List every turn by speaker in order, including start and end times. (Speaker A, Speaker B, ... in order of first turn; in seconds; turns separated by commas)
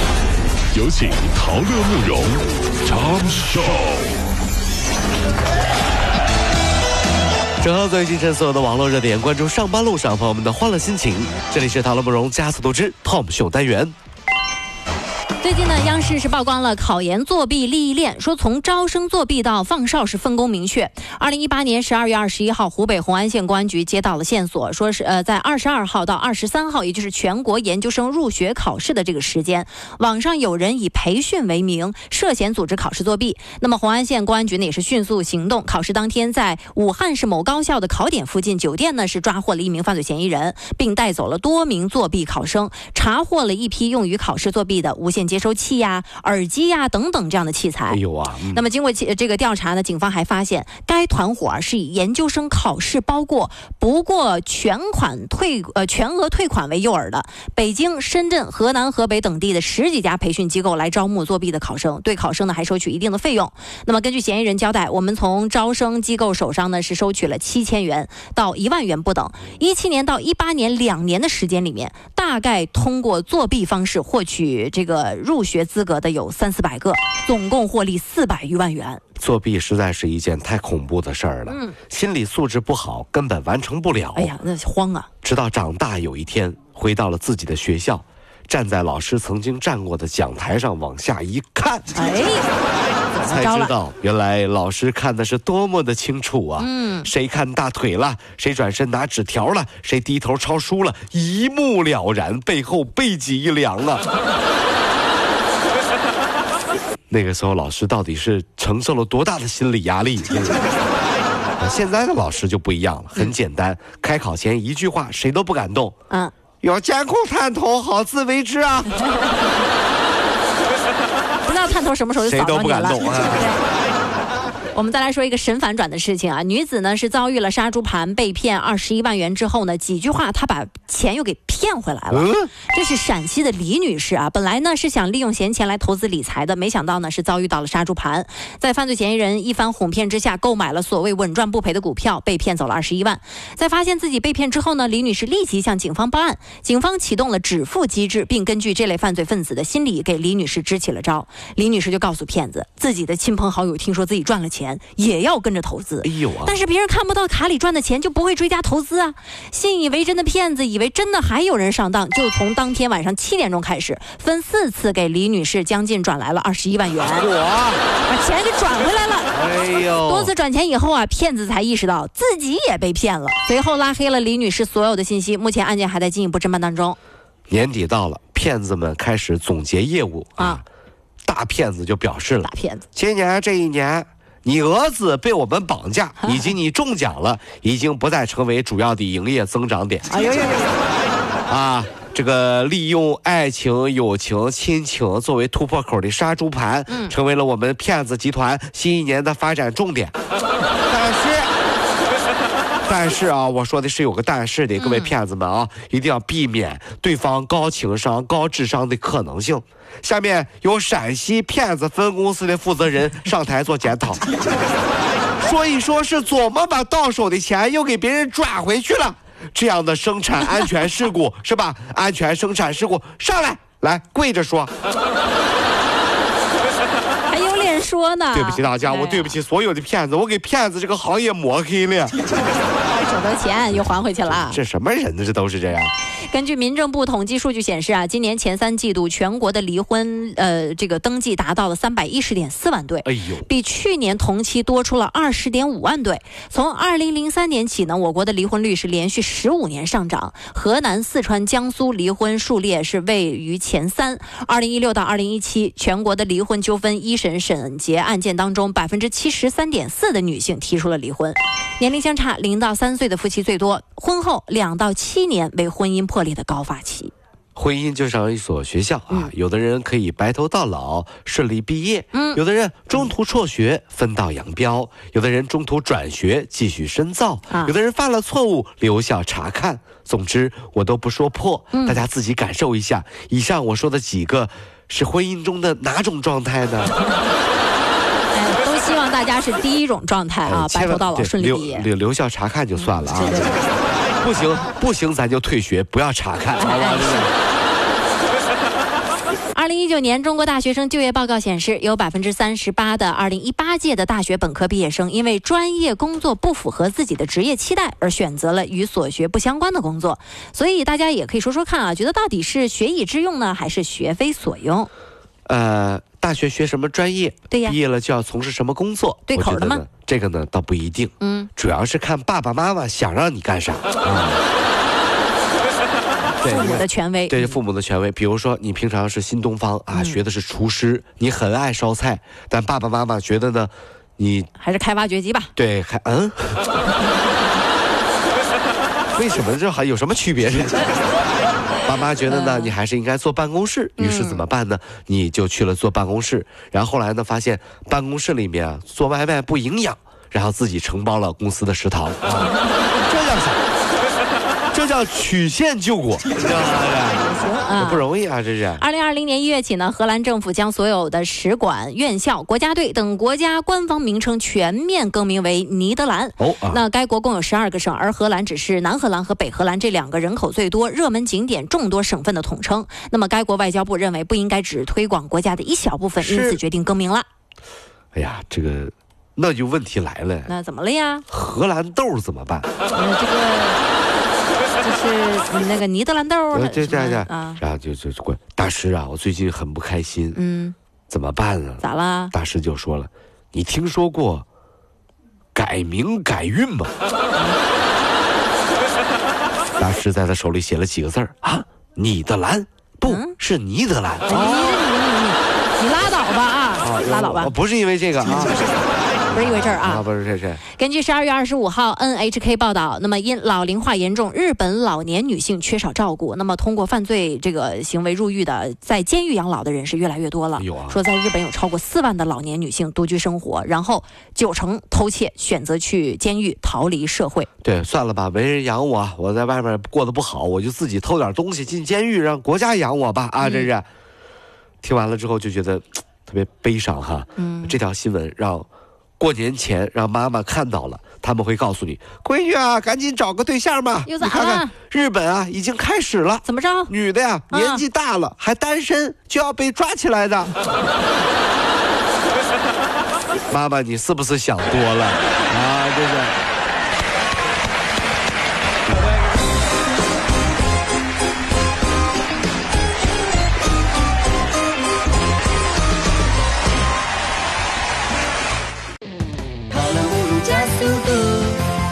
Speaker A: 0.7-4.1, Speaker B: 7.6-13.9, Speaker C: 15.4-48.0, Speaker B: 47.9-48.6, Speaker C: 48.5-79.0, Speaker B: 79.2-84.3, Speaker C: 81.5-81.8, Speaker C: 84.2-85.1, Speaker B: 85.2-91.9, Speaker C: 91.9-92.5, Speaker C: 93.1-93.7, Speaker B: 93.2-104.0, Speaker C: 96.6-97.1, Speaker B: 107.1-110.6, Speaker B: 111.6-116.0, Speaker B: 116.6-119.0, Speaker C: 121.5-123.6, Speaker B: 122.2-123.5, Speaker C: 124.7-167.3, Speaker B: 132.1-132.5, Speaker B: 156.0-156.6, Speaker B: 167.0-167.9, Speaker C: 168.0-169.4, Speaker B: 169.3-170.3, Speaker C: 169.9-177.0, Speaker B: 177.5-180.6, Speaker C: 180.4-180.6, Speaker B: 181.2-190.1, Speaker C: 182.4-182.8, Speaker C: 186.2-186.5, Speaker C: 190.1-190.8, Speaker B: 191.5-200.2, Speaker C: 196.9-197.2, Speaker B: 200.9-201.5, Speaker B: 202.9-214.2, Speaker C: 204.8-205.1, Speaker B: 215.4-224.7, Speaker C: 227.3-229.4, Speaker B: 228.3-232.2, Speaker C: 232.8-234.6, Speaker B: 233.7-235.9, Speaker C: 236.2-267.1, Speaker B: 243.0-243.5, Speaker B: 267.6-286.9, Speaker C: 272.1-272.4, Speaker C: 281.7-282.0, Speaker C: 288.3-291.9, Speaker B: 290.5-293.6, Speaker C: 292.8-293.6, Speaker B: 294.2-297.3, Speaker C: 296.6-297.3, Speaker C: 299.5-314.9, Speaker B: 315.5-324.4, Speaker C: 317.5-317.8, Speaker C: 319.3-319.9, Speaker C: 321.2-321.5, Speaker C: 326.3-327.6, Speaker B: 326.4-334.5, Speaker C: 329.9-330.2, Speaker C: 334.6-335.5, Speaker B: 335.6-336.7, Speaker B: 339.1-340.9, Speaker B: 341.9-353.6, Speaker C: 342.2-342.7, Speaker C: 344.0-344.4, Speaker B: 354.7-358.9, Speaker C: 357.1-358.1, Speaker C: 358.8-377.3, Speaker B: 366.4-366.8, Speaker B: 376.2-376.6, Speaker B: 378.1-380.5, Speaker C: 380.5-381.3, Speaker B: 381.3-382.7, Speaker C: 382.9-383.8, Speaker C: 384.8-387.6, Speaker B: 386.5-390.4, Speaker C: 390.3-390.8, Speaker B: 391.1-394.4, Speaker C: 391.8-392.3, Speaker B: 395.6-396.9, Speaker B: 399.8-404.9, Speaker C: 403.1-403.4, Speaker C: 404.3-407.5, Speaker B: 406.8-408.7, Speaker B: 409.3-410.6, Speaker C: 409.3-410.1, Speaker C: 410.8-427.5, Speaker B: 420.6-421.0, Speaker B: 427.6-433.9, Speaker C: 433.4-433.7, Speaker B: 434.8-438.7, Speaker C: 437.4-437.8, Speaker B: 439.2-450.5, Speaker C: 444.1-444.7, Speaker C: 446.4-446.9, Speaker C: 447.5-447.8, Speaker B: 453.5-456.4, Speaker C: 469.9-471.6